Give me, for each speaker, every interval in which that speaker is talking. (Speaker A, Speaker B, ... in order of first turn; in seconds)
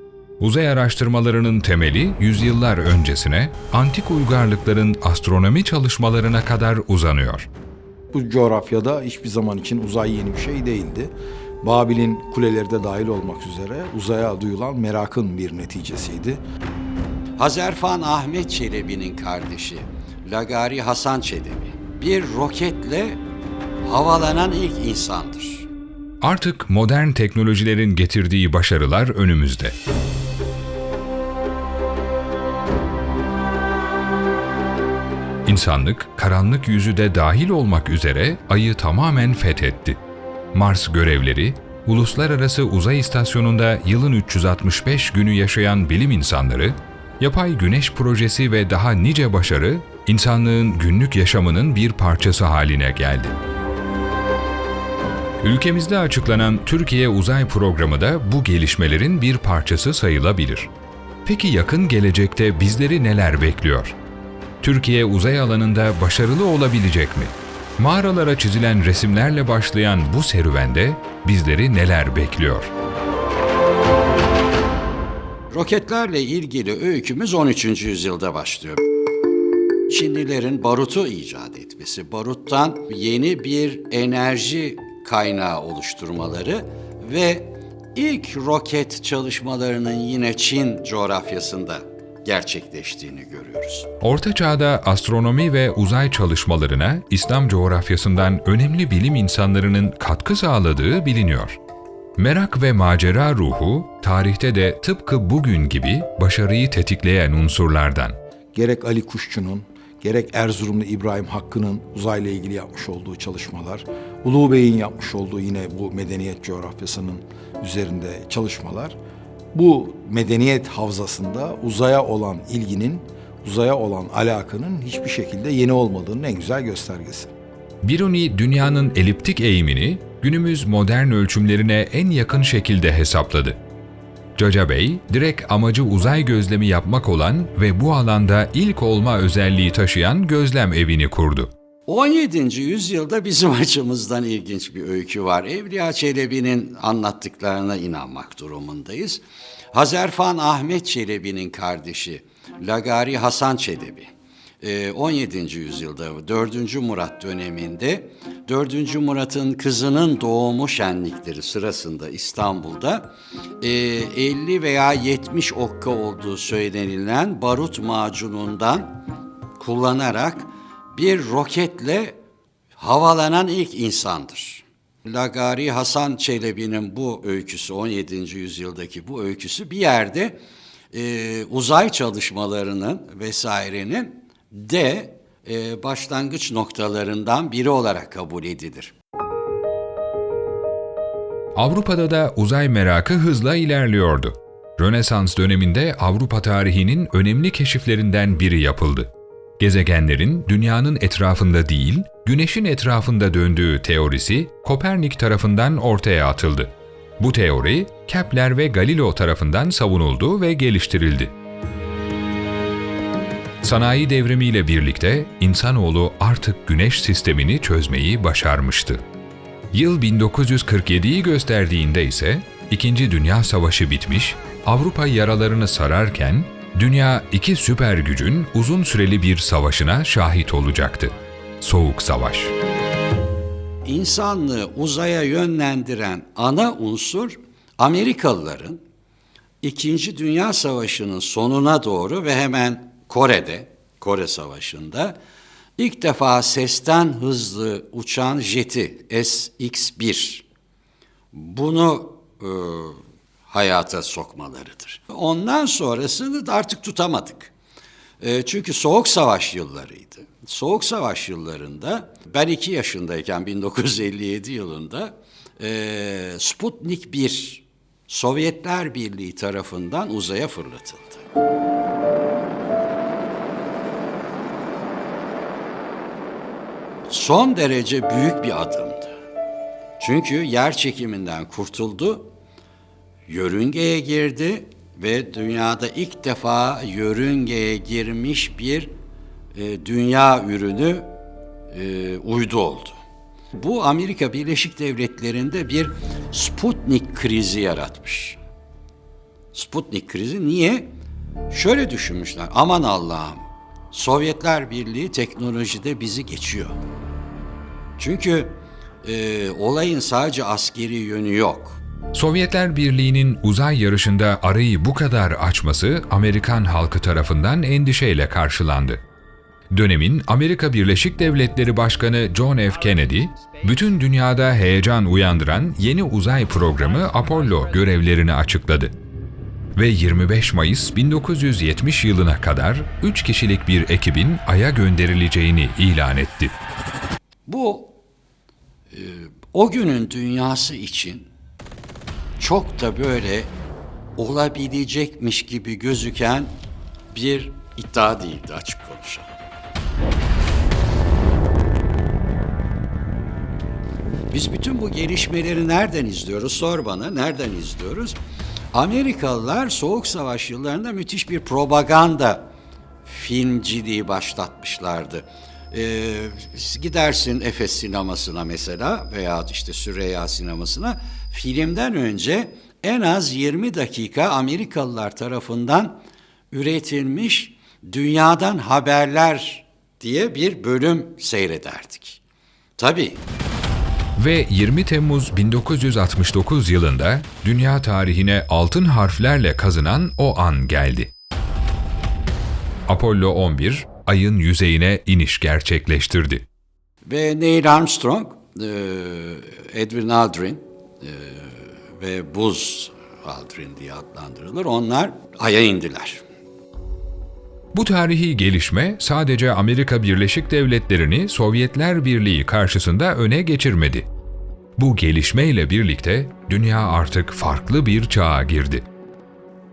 Speaker A: 0.4-7.5, 26.2-29.8, 35.5-40.0, 40.5-53.4, 55.4-60.7, 61.2-64.0, 64.6-72.7, 94.0-101.6, 102.2-108.2, 127.8-133.6, 134.4-141.5, 191.6-211.3, 213.6-219.0, 219.7-232.5, 312.1-319.0, 319.7-328.9, 329.8-336.5, 384.2-391.1, 392.9-396.4, 407.7-414.1, 414.8-418.9
Speaker B: 8.1-11.1, 11.6-16.4, 108.5-119.0, 119.5-127.3
Speaker C: 17.4-23.2, 23.8-25.7, 75.5-78.8, 79.9-93.9, 141.9-149.2, 149.7-169.0, 169.6-172.2, 172.8-180.4, 180.9-188.9, 233.8-238.8, 239.6-245.2, 245.8-250.4, 251.3-257.5, 258.2-271.2, 277.1-279.1, 280.0-282.3, 283.3-288.9, 289.5-291.1, 291.7-293.0, 293.6-298.4, 299.5-300.9, 301.5-306.8, 308.0-311.8, 337.5-338.0, 338.9-341.3, 342.4-343.5, 344.2-346.6, 347.1-349.3, 354.3-358.2, 358.7-362.5, 363.1-382.2, 382.8-383.2, 397.1-406.2